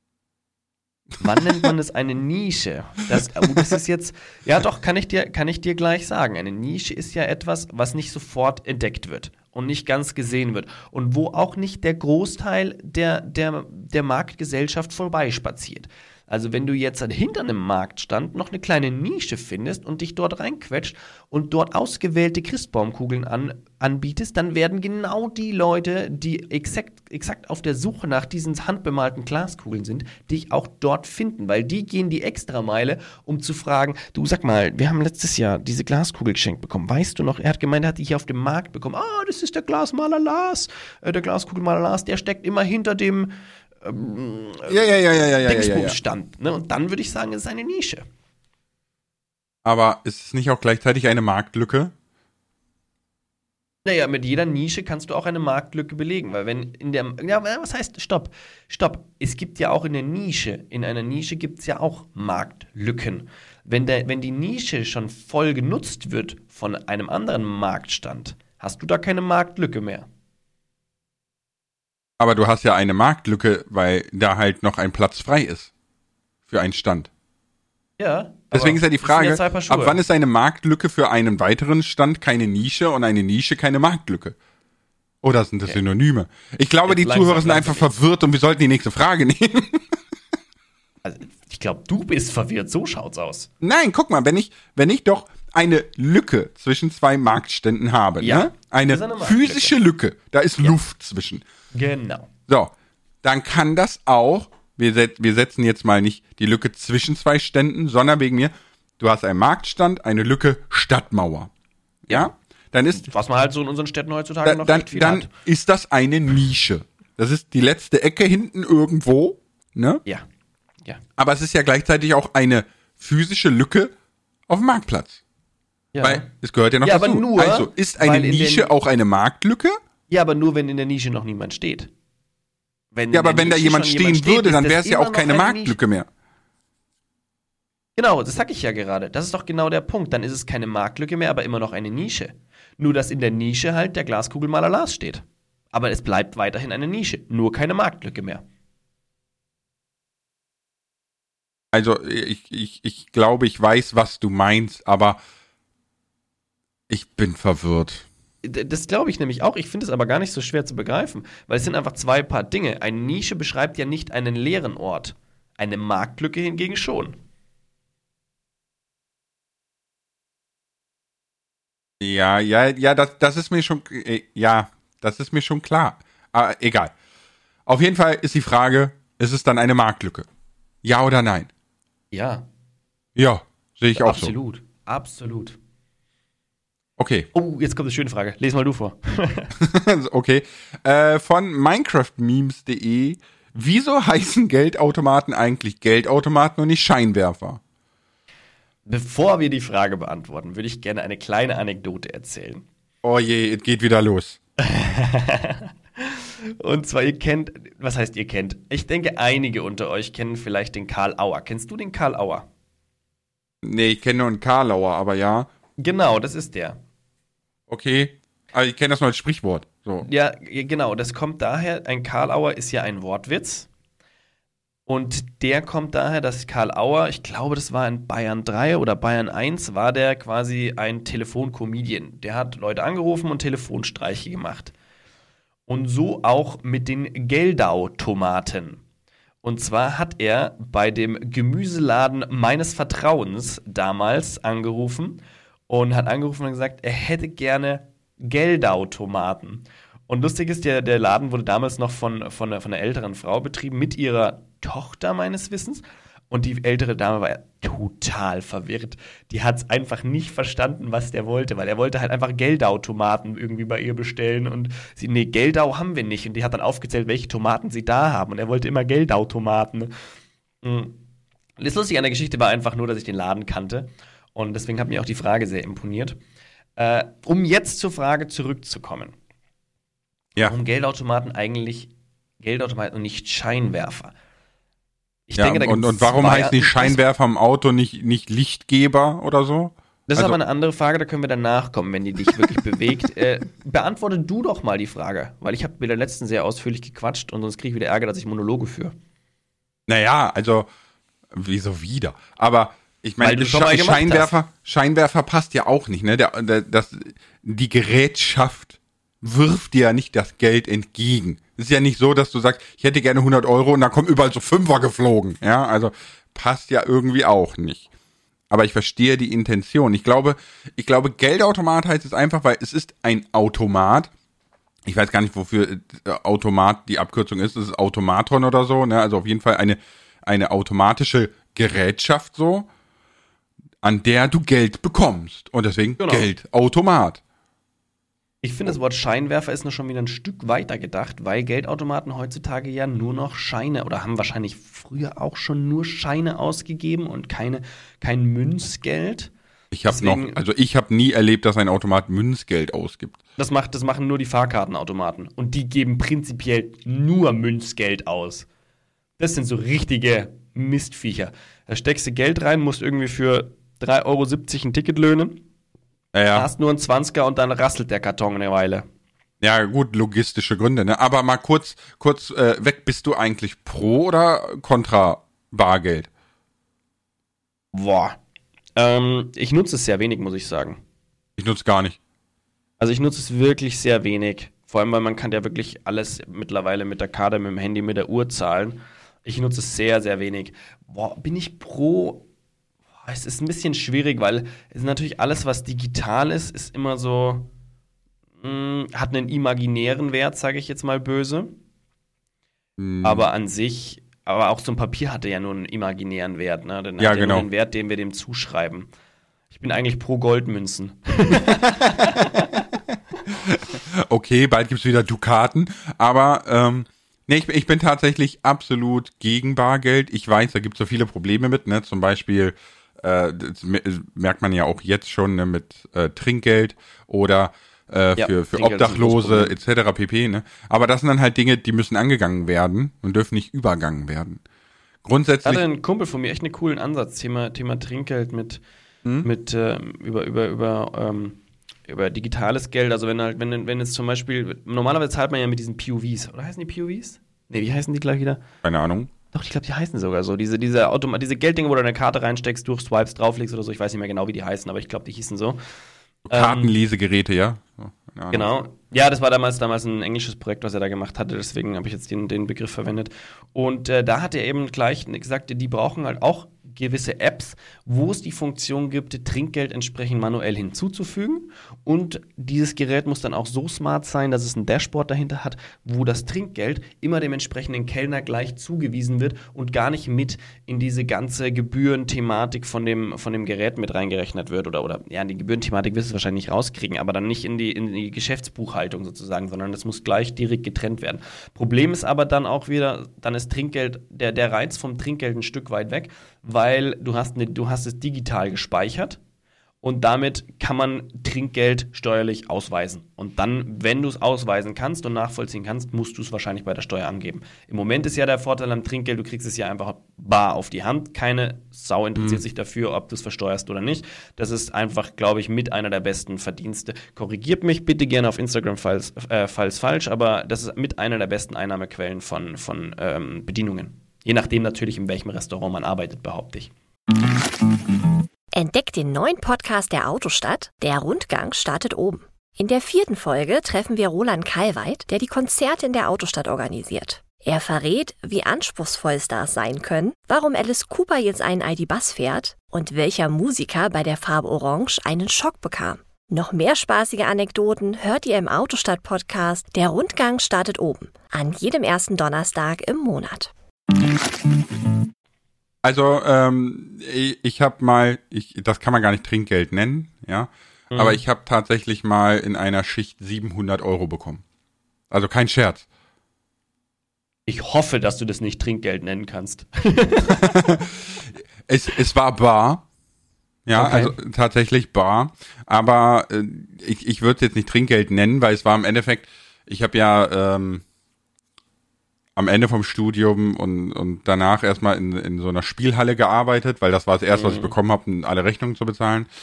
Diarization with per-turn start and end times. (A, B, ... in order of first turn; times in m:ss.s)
0:01.2-0:48.0 A
0:44.7-0:46.0 B
0:49.6-0:51.9 B
0:53.8-1:10.1 A
1:12.2-1:15.7 B
1:16.5-1:17.1 B
1:18.0-1:20.0 A
1:18.5-1:24.4 B
1:25.2-1:29.9 B
1:26.9-1:27.9 A
1:31.0-1:33.5 A
1:33.6-1:41.4 B
1:38.2-1:39.8 A
1:41.7-1:42.3 A
1:42.5-1:51.5 B
1:52.1-1:53.1 B
1:52.9-1:55.3 A
1:54.4-2:00.0 B
2:01.2-2:03.9 B
2:04.5-2:05.2 B
2:05.9-2:06.3 A
2:06.0-2:09.8 B
2:06.8-2:08.7 A
2:10.1-2:11.9 A
2:12.9-2:15.8 A
2:13.1-2:16.1 B
2:18.0-2:28.4 A
2:31.7-2:35.2 B
2:36.9-2:38.1 B
2:38.4-2:47.2 A
2:52.0-2:56.9 B
2:57.7-3:00.3 B
3:00.8-3:01.5 B
3:02.1-3:02.4 A
3:03.2-3:04.3 B
3:04.0-3:05.6 A
3:07.0-3:07.3 B
3:07.3-3:09.5 A
3:09.6-3:17.6 B
3:18.8-3:22.6 A
3:23.0-3:24.4 B
3:24.6-3:32.4 A
3:33.6-3:35.5 B
3:35.8-3:36.8 A
3:37.7-3:40.1 B
3:40.0-3:43.7 A
3:44.9-3:54.7 A
3:55.7-3:58.8 A
3:59.4-4:29.9 A
4:30.6-4:31.0 A
4:31.6-4:36.2 A
4:36.8-4:39.1 A
4:40.4-4:44.1 A
4:45.3-4:47.0 A
4:45.4-4:50.4 B
4:50.1-4:58.9 A
4:59.9-5:00.7 B
5:01.3-5:17.8 B
5:03.2-5:04.3 A
5:18.5-5:24.1 B
5:24.8-5:32.7 B
5:33.8-5:37.2 B
5:36.0-5:36.3 A
5:38.4-5:49.3 A
5:49.7-5:53.2 B
5:49.9-5:50.4 A
5:53.4-5:58.5 A
5:59.2-6:05.4 A
6:06.1-6:06.5 B
6:06.3-6:08.8 A
6:09.4-6:16.1 B
6:17.7-6:18.2 A
6:18.8-6:20.8 A
6:21.4-6:22.0 B
6:22.8-6:32.2 A
6:33.0-6:37.5 A
6:38.4-6:41.6 A
6:42.8-6:43.2 B
6:43.0-6:48.9 A
6:47.0-6:47.5 B
6:49.5-6:52.6 A
6:53.3-7:14.4 B
7:08.2-7:09.5 A
7:15.0-7:15.6 B
7:15.4-7:18.6 A
7:19.2-7:28.4 A
7:28.6-7:29.1 B
7:29.3-7:35.6 A
7:36.2-7:38.5 B
7:36.3-7:36.7 A
7:38.3-8:19.2 A
8:19.8-8:46.7 A
8:32.2-8:32.4 B
8:48.5-9:13.5 C
9:15.8-9:24.4 B
9:20.9-9:21.2 A
9:25.1-9:25.8 B
9:27.5-9:30.6 A
9:30.3-9:32.8 B
9:33.6-9:40.8 B
9:33.7-9:34.1 A
9:42.4-9:49.3 B
9:47.3-9:47.7 A